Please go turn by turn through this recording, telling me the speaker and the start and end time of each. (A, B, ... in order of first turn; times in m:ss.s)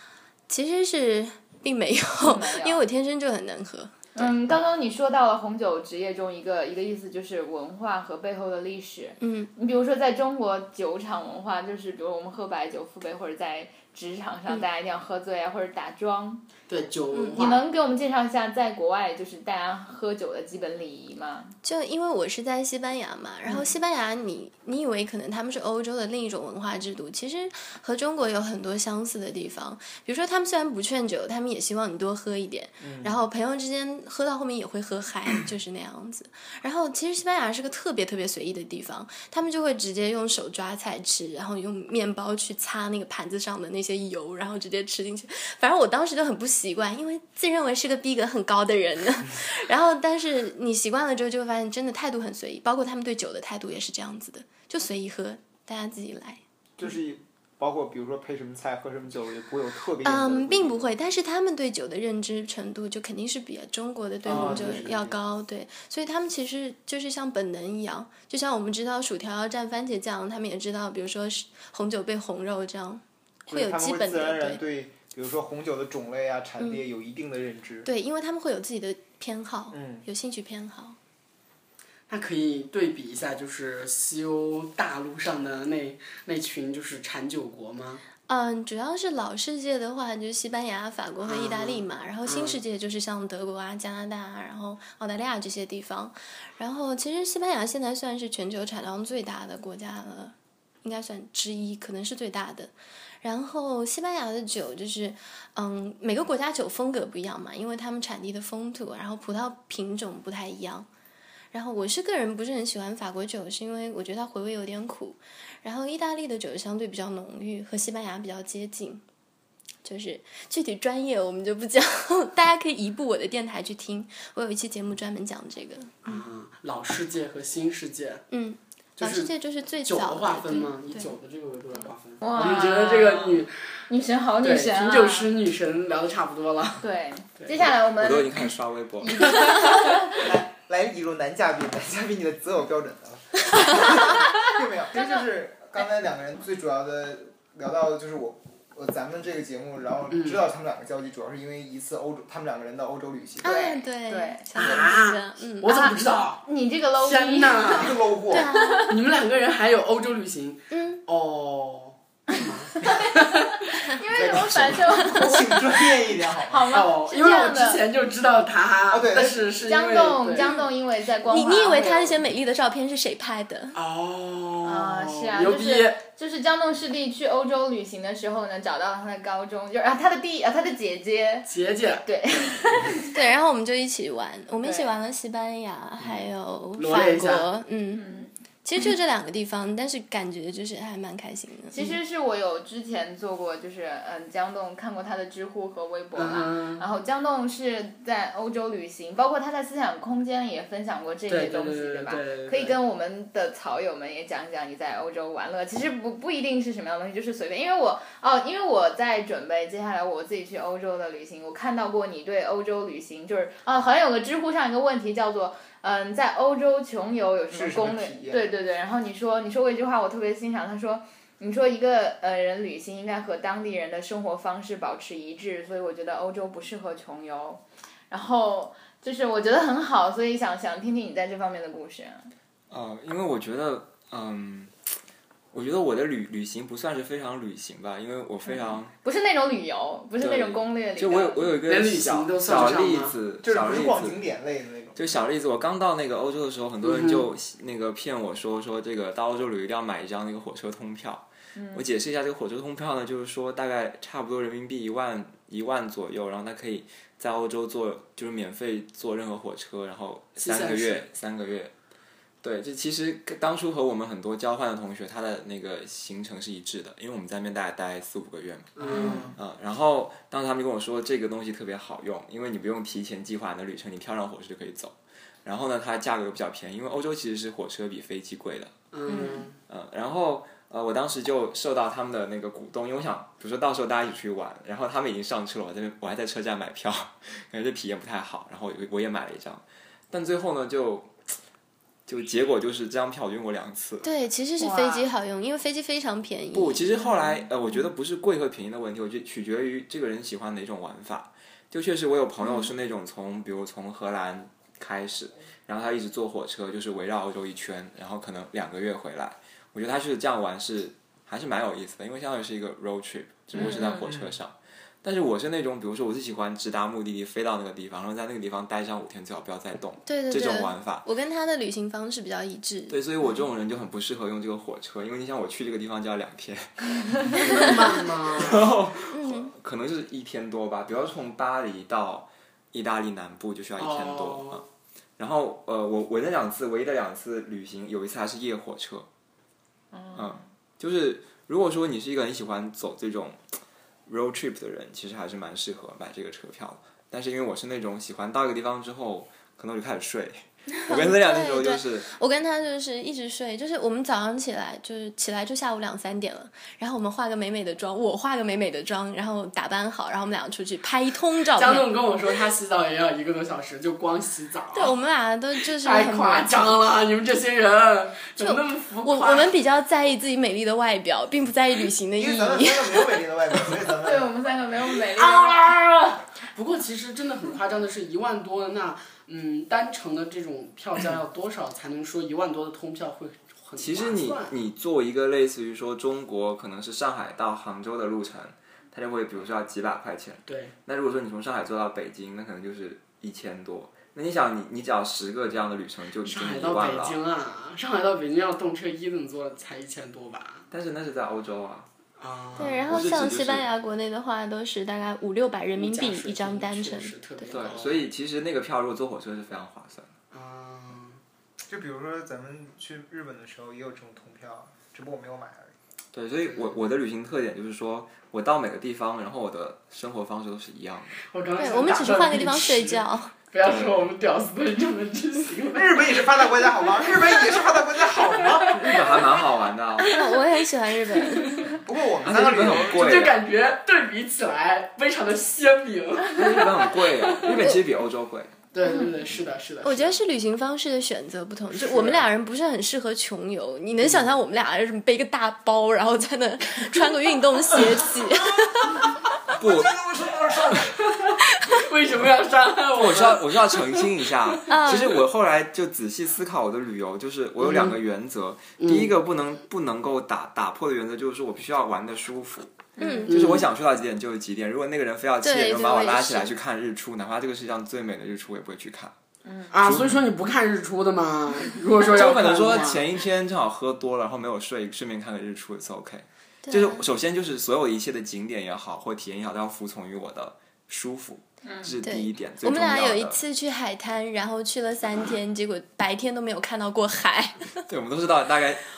0:00.5-0:04.3 A
0:02.2-0:02.8 B
0:04.1-0:16.5 B
0:09.2-0:09.5 A
0:16.7-0:17.6 C
0:17.4-0:21.5 B
0:21.6-0:56.4 A
0:32.8-0:33.1 D
0:56.8-1:00.9 D
1:00.0-1:14.6 A
1:04.2-1:05.2 D
1:04.3-1:04.6 C
1:13.5-1:17.9 D
1:17.8-1:21.0 A
1:19.7-1:20.0 D
1:22.1-1:28.0 C
1:28.3-1:50.9 A
1:31.2-1:32.6 C
1:51.5-1:59.0 A
1:59.8-2:06.2 A
2:06.0-2:08.2 C
2:08.3-2:11.1 A
2:09.0-2:09.3 C
2:09.8-2:13.8 C
2:12.2-2:15.3 B
2:14.4-2:16.8 C
2:16.8-2:18.5 B
2:17.4-2:17.6 C
2:18.0-2:19.5 E
2:19.0-2:20.2 B
2:20.1-2:33.5 D
2:24.9-2:25.2 B
2:30.1-2:30.5 C
2:33.4-2:35.8 A
2:33.4-2:34.8 B
2:34.6-2:36.4 C
2:35.7-2:38.0 B
2:37.0-2:38.0 C
2:37.7-2:38.5 D
2:38.3-2:38.9 A
2:38.5-2:38.9 B
2:38.9-2:44.8 C
2:40.7-2:41.0 A
2:42.8-2:45.8 B
2:45.0-2:45.5 A
2:45.0-2:46.7 D
2:46.5-2:47.8 B
2:46.7-2:50.6 C
2:48.9-2:49.4 D
2:49.6-2:52.0 B
2:51.2-2:53.8 A
2:51.7-2:52.1 C
2:53.7-2:56.0 C
2:54.6-3:01.5 B
3:01.5-3:02.0 C
3:02.0-3:03.1 B
3:03.1-3:08.1 A
3:04.6-3:04.9 B
3:06.8-3:07.5 C
3:07.9-3:08.3 B
3:08.6-3:11.8 A
3:11.7-3:52.3 B
3:16.1-3:16.8 C
3:21.3-3:22.8 C
3:37.5-3:38.4 D
3:52.7-3:54.7 E
3:55.5-3:58.9 E
3:58.5-4:01.4 B
4:00.2-4:04.2 E
4:01.6-4:03.2 C
4:03.4-4:05.0 D
4:05.0-4:21.7 E
4:06.8-4:07.3 C
4:11.5-4:11.8 B
4:20.4-4:21.1 C
4:22.4-4:38.7 E
4:28.8-4:29.4 C
4:28.9-4:29.3 B
4:38.9-4:39.6 C
4:39.1-4:39.5 B
4:39.7-4:51.1 E
4:52.1-4:54.1 E
4:54.0-4:57.4 A
4:54.6-4:55.1 B
4:56.5-5:21.0 E
5:02.4-5:02.7 A
5:13.6-5:14.0 B
5:14.0-5:14.3 D
5:20.0-5:23.0 A
5:22.9-5:34.6 E
5:27.4-5:28.7 C
5:29.1-5:29.5 A
5:33.8-5:34.6 C
5:35.2-5:39.1 E
5:39.9-5:40.4 B
5:40.1-5:43.4 E
5:44.1-5:52.1 E
5:50.8-6:01.9 A
6:01.5-6:05.0 C
6:04.7-6:06.8 A
6:05.7-6:09.5 C
6:08.4-6:13.2 A
6:12.2-6:14.3 D
6:14.0-6:15.7 B
6:15.1-6:24.5 C
6:23.8-6:37.2 E
6:30.4-6:30.7 C
6:36.2-6:40.6 C
6:40.7-6:41.9 E
6:42.2-6:43.0 C
6:42.6-6:47.7 A
6:42.6-6:43.7 E
6:45.8-6:48.0 C
6:47.5-6:50.1 E
6:50.3-6:51.2 C
6:51.7-6:55.7 D
6:56.1-7:01.2 E
7:01.2-7:06.1 C
7:01.6-7:03.3 A
7:03.6-7:04.1 E
7:05.7-7:09.2 D
7:07.0-7:07.7 C
7:08.2-7:09.4 C
7:08.7-7:10.1 E
7:10.0-7:11.7 A
7:11.2-7:11.7 C
7:11.8-7:13.1 D
7:12.2-7:13.4 E
7:12.9-7:17.7 C
7:16.3-7:18.6 E
7:18.7-7:20.2 C
7:18.8-7:19.2 A
7:19.8-7:29.1 A
7:21.8-7:22.2 C
7:29.5-7:31.3 D
7:29.6-7:30.0 E
7:31.2-7:34.7 C
7:32.9-7:42.8 E
7:34.7-7:35.2 A
7:37.6-7:38.0 C
7:38.8-7:39.1 C
7:43.0-7:43.3 B
7:43.0-7:43.3 A
7:43.3-7:43.7 C
7:43.3-7:49.1 E
7:45.4-7:46.5 A
7:49.4-7:49.7 B
7:49.7-7:53.0 C
7:49.8-7:50.2 E
7:52.1-8:03.4 E
7:56.6-7:57.0 A
8:01.6-8:01.9 B
8:02.0-8:07.8 A
8:07.8-8:08.8 E